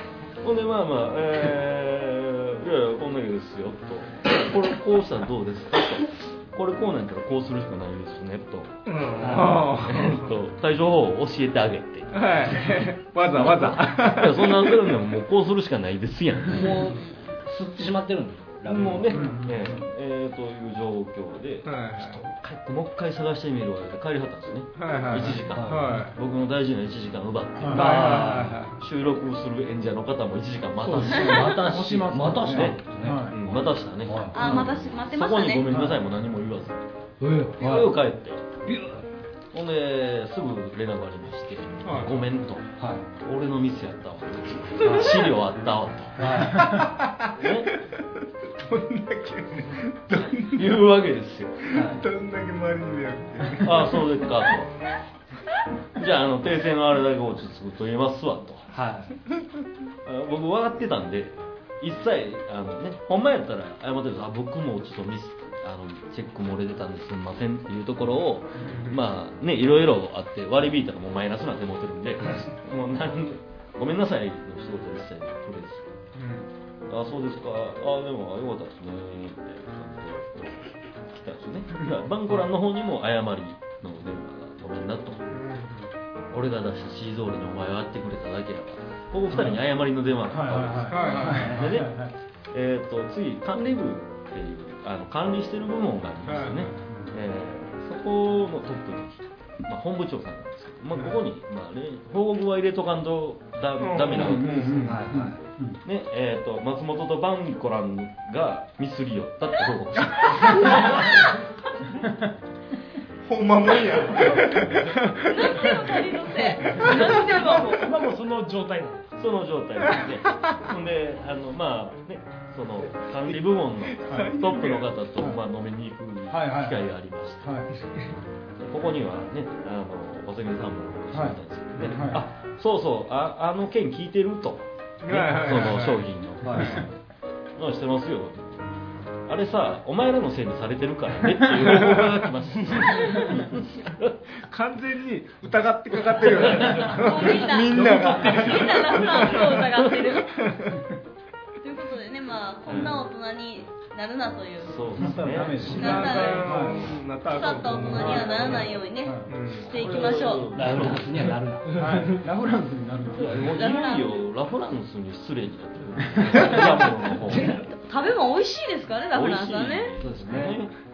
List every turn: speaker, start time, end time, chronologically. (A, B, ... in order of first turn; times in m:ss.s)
0:00.4-0:12.5 A
0:08.9-0:10.3 B
0:09.2-0:09.7 C
0:12.1-0:14.8 B
0:13.4-0:16.8 A
0:16.5-0:19.4 C
0:16.6-0:17.4 D
0:18.6-0:31.5 A
0:19.1-0:19.7 E
0:21.6-0:22.2 B
0:24.8-0:26.2 B
0:25.5-0:26.0 C
0:27.6-0:28.0 E
0:27.7-0:28.6 C
0:27.7-0:28.8 B
0:30.8-0:33.4 E
0:30.9-0:34.8 C
0:32.4-0:36.8 A
0:34.3-0:35.7 D
0:37.2-0:37.9 C
0:37.6-0:38.5 A
0:38.7-0:39.0 C
0:39.5-0:42.7 A
0:41.8-0:42.2 B
0:42.8-0:43.1 C
0:43.2-0:46.5 A
0:44.8-0:45.3 C
0:46.2-0:46.8 C
0:46.6-0:47.7 B
0:47.4-0:47.7 A
0:48.6-0:50.8 B
0:50.5-0:51.7 A
0:51.7-0:54.0 B
0:51.7-0:52.0 C
0:53.6-0:54.7 A
0:56.0-0:58.7 A
0:58.7-0:59.2 C
1:00.0-1:15.9 A
1:08.6-1:09.0 B
1:16.2-1:16.4 B
1:16.9-1:25.2 A
1:25.3-1:25.9 B
1:26.3-1:32.0 A
1:29.3-1:29.6 E
1:30.3-1:32.1 E
1:30.9-1:31.6 B
1:31.0-1:31.3 D
1:31.3-1:31.7 C
1:32.5-1:44.9 A
1:36.3-1:36.8 B
1:36.9-1:37.2 E
1:43.8-1:45.0 B
1:44.1-1:45.8 E
1:44.9-1:45.4 C
1:45.8-1:51.2 A
1:53.2-1:57.7 B
1:55.3-1:57.8 D
1:56.9-1:59.1 F
1:59.2-2:07.5 A
2:03.3-2:04.9 B
2:04.1-2:04.4 E
2:06.3-2:07.7 E
2:08.6-2:16.9 A
2:11.1-2:12.3 E
2:15.0-2:16.1 B
2:16.4-2:16.8 C
2:17.6-2:18.6 A
2:19.3-2:24.2 A
2:21.6-2:22.3 B
2:22.9-2:23.2 D
2:24.5-2:29.6 B
2:26.2-2:27.1 A
2:26.8-2:30.3 D
2:30.2-2:30.9 B
2:31.6-2:34.8 D
2:32.7-2:32.9 A
2:34.6-2:36.3 A
2:35.0-2:36.9 E
2:35.8-2:36.6 D
2:35.8-2:38.8 B
2:37.3-2:40.5 D
2:37.9-2:39.3 E
2:38.1-2:38.6 A
2:39.3-2:39.9 B
2:39.7-2:41.4 A
2:40.5-2:42.1 C
2:41.8-2:43.6 E
2:43.2-2:47.6 A
2:43.4-2:44.2 D
2:46.1-2:46.6 E
2:47.3-2:47.6 C
2:47.3-2:50.0 D
2:49.1-2:50.7 A
2:50.0-2:50.6 C